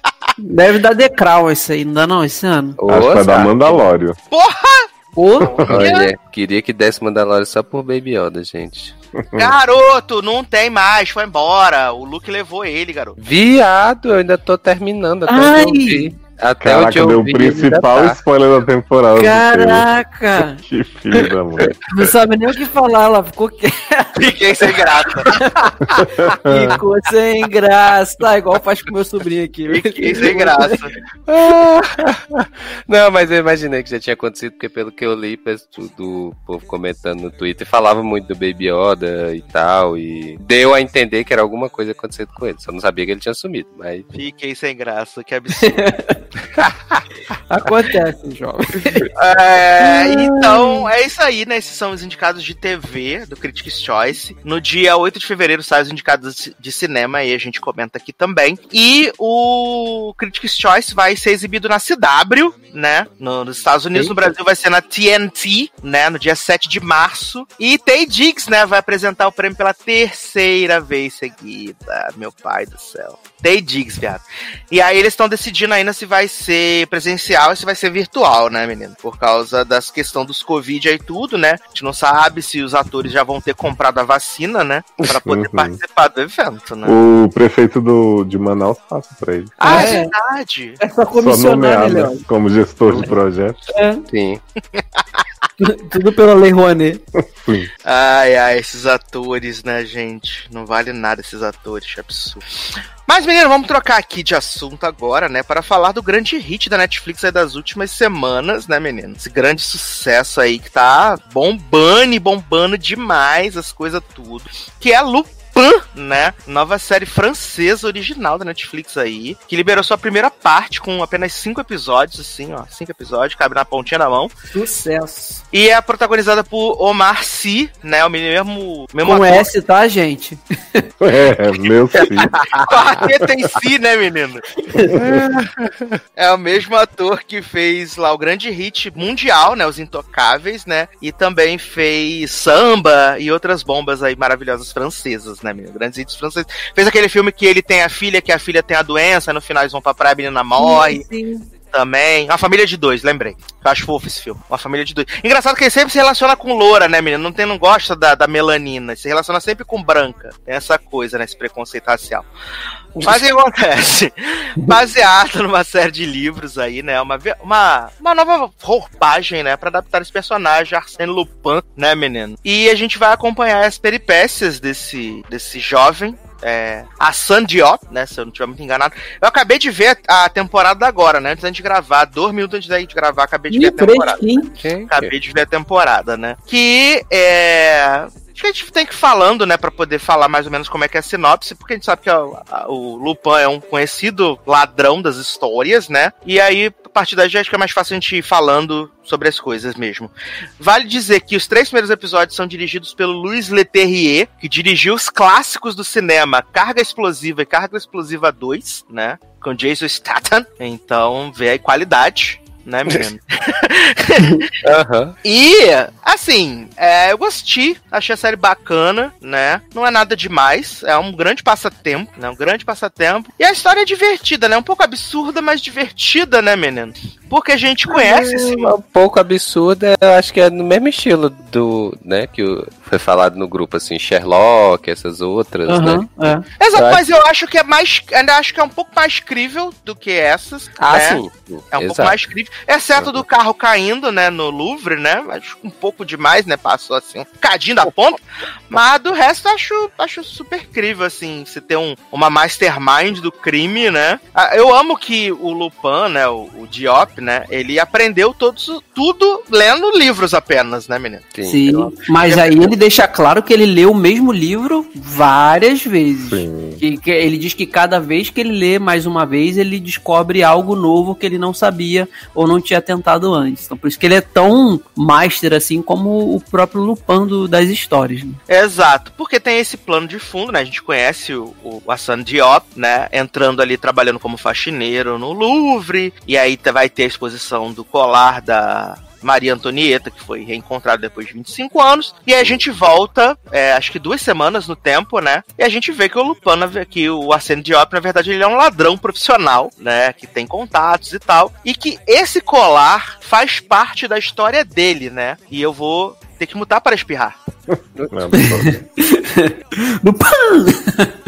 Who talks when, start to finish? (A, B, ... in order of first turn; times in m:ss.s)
0:00.4-0:02.8 A
0:02.8-0:03.8 B
0:02.9-0:04.2 C
0:04.3-0:04.9 D
0:05.2-0:05.6 A
0:05.4-0:06.1 D
0:05.6-0:05.8 C
0:05.6-0:08.9 B
0:09.2-0:09.5 C
0:09.4-0:13.2 D
0:13.2-0:18.2 B
0:15.3-0:16.1 A
0:16.6-0:19.8 C
0:19.2-0:20.6 A
0:20.4-0:22.1 C
0:21.9-0:30.8 A
0:24.2-0:25.3 D
0:25.9-0:26.8 C
0:29.7-0:30.9 D
0:31.3-0:44.1 B
0:44.1-0:45.8 D
0:45.6-0:46.1 A
0:46.6-0:47.0 B
0:47.5-0:49.1 A
0:49.1-1:27.0 D
0:49.8-0:50.8 A
1:25.2-1:25.8 C
1:26.8-1:29.9 C
1:29.6-1:30.8 D
1:29.6-1:30.1 A
1:30.8-1:32.2 A
1:31.1-1:33.6 C
1:33.7-1:34.0 A
1:34.1-1:34.4 B
1:35.6-1:37.0 A
1:37.2-1:37.7 C
1:37.8-1:42.4 D
1:43.1-2:04.3 D
2:04.5-2:05.4 A
2:05.5-2:09.5 D
2:09.0-2:10.8 A
2:11.0-2:12.3 C
2:12.6-2:14.4 D
2:14.9-2:15.3 C
2:15.0-2:15.9 B
2:16.2-2:31.0 D
2:30.6-2:31.5 A
2:31.7-2:42.3 D
2:43.0-2:43.2 B
2:43.0-3:04.2 D
3:03.5-3:04.5 A
3:04.6-3:05.1 B
3:04.9-3:34.5 D
3:34.6-3:35.1 B
3:35.2-3:48.7 D
3:47.9-3:56.0 B
3:55.7-3:56.4 A
3:56.6-4:01.2 D
3:56.7-3:57.0 B
4:00.8-4:02.2 B
4:01.7-4:21.2 D
4:03.0-4:03.2 B
4:21.3-4:22.1 B
4:21.4-4:38.4 A
4:26.2-4:26.8 C
4:38.5-5:07.4 D
5:07.7-5:08.7 C
5:08.0-5:08.8 B
5:08.3-5:11.1 A